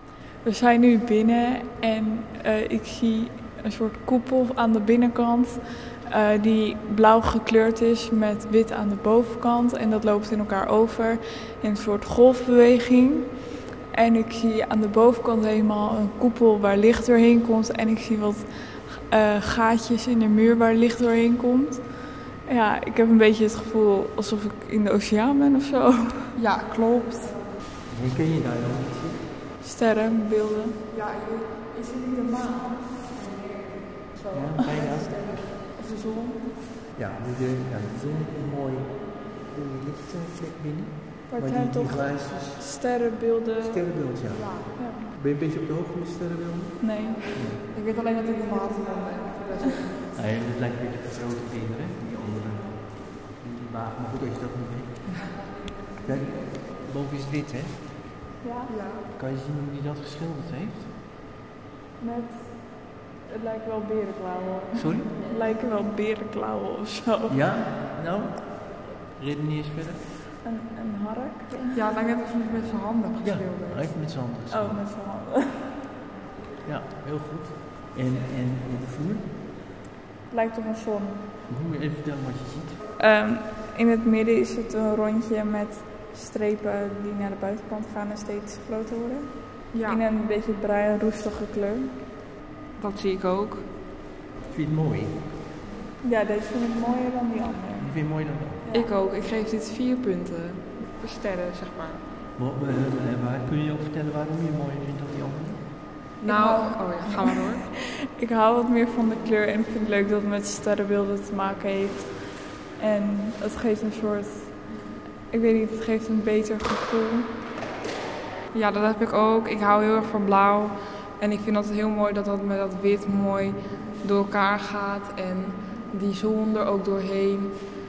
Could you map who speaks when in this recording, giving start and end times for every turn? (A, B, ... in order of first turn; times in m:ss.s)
0:00.4-0:13.3 A
0:13.9-0:18.5 A
0:19.1-0:21.8 A
0:22.5-0:26.4 A
0:26.4-0:27.4 B
0:27.9-0:29.3 C
0:29.6-0:30.8 A
0:30.9-0:36.5 B
0:34.3-0:35.5 C
0:36.9-0:42.7 C
0:41.3-0:44.1 A
0:43.6-0:46.8 C
0:44.3-0:44.7 B
0:44.8-0:45.1 A
0:46.8-0:47.3 A
0:47.3-0:47.6 C
0:47.7-0:50.1 B
0:50.1-0:55.4 C
0:55.1-0:55.7 B
0:56.0-0:57.9 C
0:58.4-0:58.8 A
0:58.7-0:59.1 B
0:59.1-1:00.9 C
1:02.0-1:07.4 A
1:04.7-1:05.1 C
1:07.3-1:10.1 C
1:10.4-1:11.8 A
1:11.7-1:14.0 B
1:13.2-1:14.8 C
1:14.5-1:15.6 A
1:16.6-1:19.3 C
1:20.3-1:21.2 A
1:21.5-1:22.8 C
1:23.0-1:31.9 A
1:29.7-1:30.0 B
1:32.8-1:33.7 B
1:34.5-1:35.3 C
1:36.0-1:37.9 A
1:37.8-1:38.6 C
1:38.6-1:38.9 A
1:38.7-1:42.0 B
1:42.4-1:45.7 C
1:46.2-1:47.7 B
1:46.3-1:52.1 A
1:52.7-1:54.6 A
1:55.3-1:57.2 A
1:58.5-2:07.6 B